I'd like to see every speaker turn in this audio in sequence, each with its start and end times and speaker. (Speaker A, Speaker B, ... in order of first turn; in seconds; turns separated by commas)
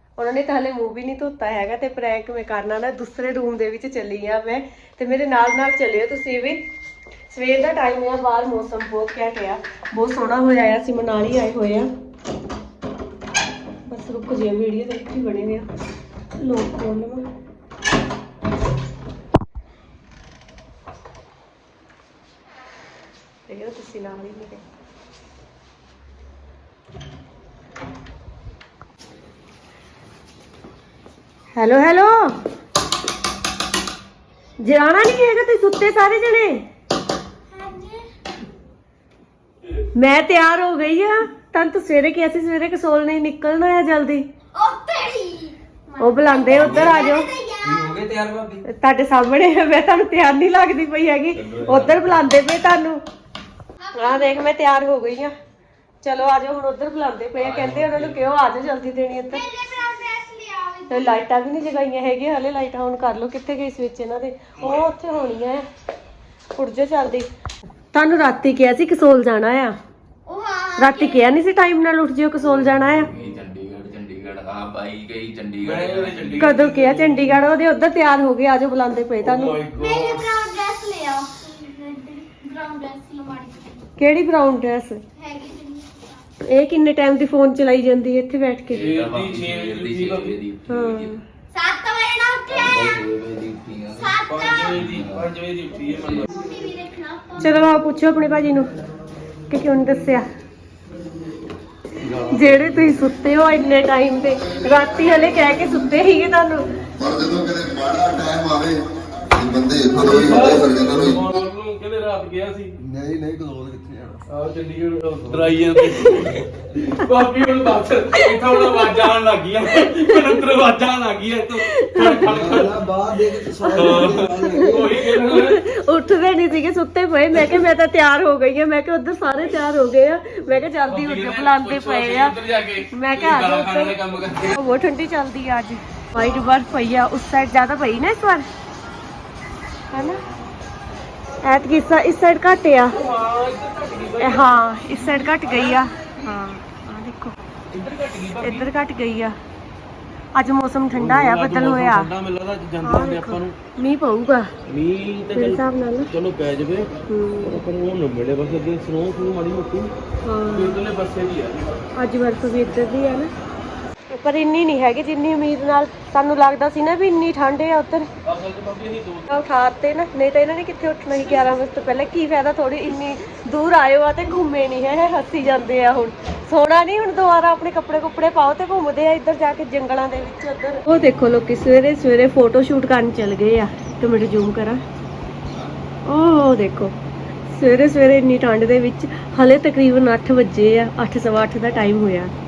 Speaker A: 0.2-6.6, Speaker A: 7.3-11.9, Speaker A: 13.9-15.7, Speaker A: 16.4-17.3, Speaker A: 23.5-24.6, Speaker A: 31.6-32.4, Speaker A: 34.6-36.6, Speaker B: 37.5-38.1, Speaker A: 40.0-44.3, Speaker B: 44.5-48.0, Speaker A: 46.0-47.3, Speaker C: 46.5-47.0, Speaker C: 47.7-48.0, Speaker D: 48.1-48.6, Speaker A: 48.6-53.0, Speaker B: 53.9-54.4, Speaker A: 54.0-55.3, Speaker A: 56.0-59.5, Speaker C: 57.4-57.9, Speaker D: 57.5-58.2, Speaker B: 59.3-61.3, Speaker A: 60.9-65.7, Speaker A: 66.6-67.3, Speaker A: 67.9-69.8, Speaker B: 70.3-71.2, Speaker A: 70.8-73.1, Speaker D: 72.8-73.4, Speaker C: 72.8-76.6, Speaker D: 75.6-77.4, Speaker A: 76.4-79.6, Speaker D: 79.2-80.3, Speaker B: 79.7-83.9, Speaker A: 84.0-85.0, Speaker B: 85.2-86.2, Speaker A: 86.5-88.9, Speaker C: 88.7-91.1, Speaker D: 88.7-90.4, Speaker A: 90.7-91.2, Speaker B: 91.5-92.9, Speaker C: 92.5-95.3, Speaker B: 93.9-94.8, Speaker D: 94.2-96.3, Speaker B: 96.3-97.5, Speaker A: 97.4-98.7, Speaker A: 99.5-100.3, Speaker D: 102.0-103.0, Speaker A: 102.3-106.7, Speaker E: 107.0-111.2, Speaker D: 109.9-112.7, Speaker E: 112.8-114.2, Speaker D: 114.3-122.8, Speaker A: 115.8-116.4, Speaker A: 118.1-119.2, Speaker A: 119.9-120.4, Speaker A: 121.6-122.3, Speaker E: 122.2-124.9, Speaker A: 123.6-132.4, Speaker D: 123.7-125.6, Speaker D: 130.9-134.6, Speaker A: 132.9-134.0, Speaker A: 134.5-138.5, Speaker A: 139.9-140.2, Speaker A: 141.4-143.0, Speaker D: 142.9-145.9, Speaker A: 144.2-147.4, Speaker D: 147.7-148.7, Speaker A: 148.4-149.4, Speaker A: 150.3-152.1, Speaker D: 150.9-153.6, Speaker A: 152.8-154.5, Speaker D: 154.7-156.9, Speaker A: 155.3-156.1, Speaker A: 157.1-157.6, Speaker D: 157.4-159.9, Speaker A: 160.2-160.8, Speaker D: 160.5-161.9, Speaker A: 162.0-163.3, Speaker A: 164.2-168.1, Speaker D: 168.2-169.3, Speaker A: 169.3-184.8, Speaker A: 186.1-186.9, Speaker A: 187.5-192.3